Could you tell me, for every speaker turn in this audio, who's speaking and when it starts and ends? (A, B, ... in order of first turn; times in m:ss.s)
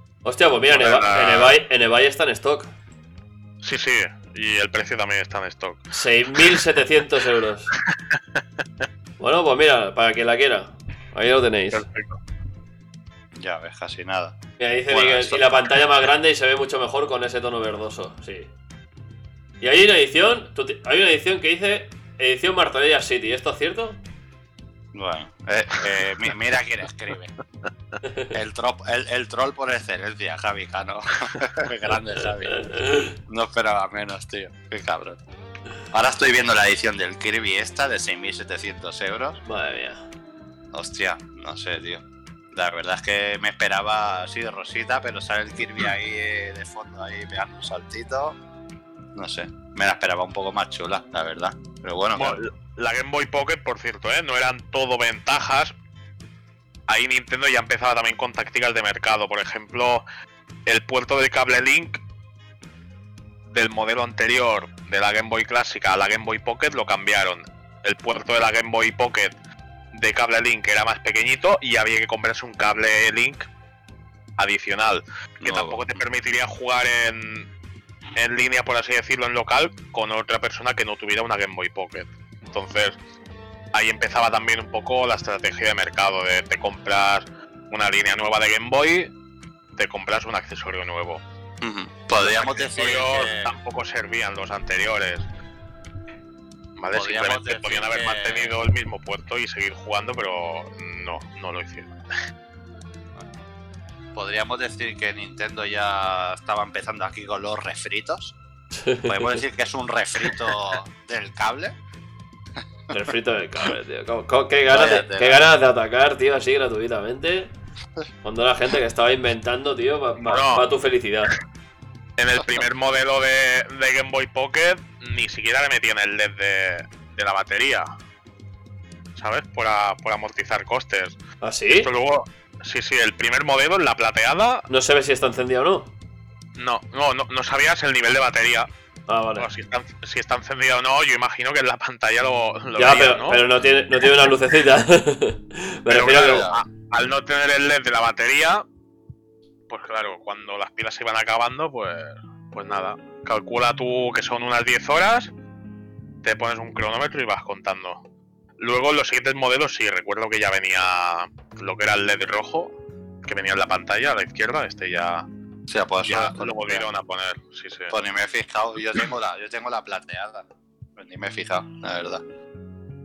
0:00.2-0:02.7 A
0:00.7-0:01.6 B
0:03.6-0:06.6 B
0:05.9-0:07.7 A
0:07.9-0:08.2 B
0:09.2-0:11.8 A
0:11.7-0:12.2 B
0:13.4-0:14.4 C
0:14.6-0:18.5 A
0:14.9-0:15.7 C
0:19.6-0:24.0 A
0:24.9-0:27.3 C
0:28.0-0:28.3 A
0:28.3-0:32.7 C
0:32.4-0:33.2 A
0:33.3-0:35.2 C
0:35.9-0:39.4 C
0:39.4-0:40.0 A
0:40.7-0:48.4 C
0:49.1-0:52.4 C
0:52.1-0:55.7 B
0:56.9-1:00.0 B
1:00.6-1:02.0 B
1:03.5-1:09.3 B
1:09.9-1:13.5 B
1:14.4-1:17.5 B
1:15.4-1:16.0 C
1:18.1-1:23.0 B
1:23.7-1:29.1 B
1:29.7-1:31.2 B
1:31.6-1:33.6 C
1:32.2-1:35.3 B
1:36.8-1:41.9 B
1:36.9-1:38.6 C
1:44.1-1:48.3 C
1:48.7-1:49.4 A
1:49.0-1:51.8 C
1:52.9-1:57.5 A
1:54.7-1:55.4 C
1:58.2-2:01.4 A
2:00.2-2:00.7 B
2:02.2-2:07.9 B
2:09.2-2:11.2 B
2:11.4-2:11.9 A
2:11.7-2:14.6 B
2:14.7-2:15.9 A
2:16.6-2:18.7 B
2:19.1-2:19.5 A
2:19.4-2:23.4 B
2:22.8-2:26.5 A
2:25.9-2:28.6 B
2:26.3-2:26.6 C
2:29.7-2:35.3 B
2:36.2-2:38.0 B
2:38.6-2:42.7 B
2:43.2-2:45.3 B
2:45.7-2:46.9 C
2:46.0-2:47.9 B
2:47.9-2:52.2 C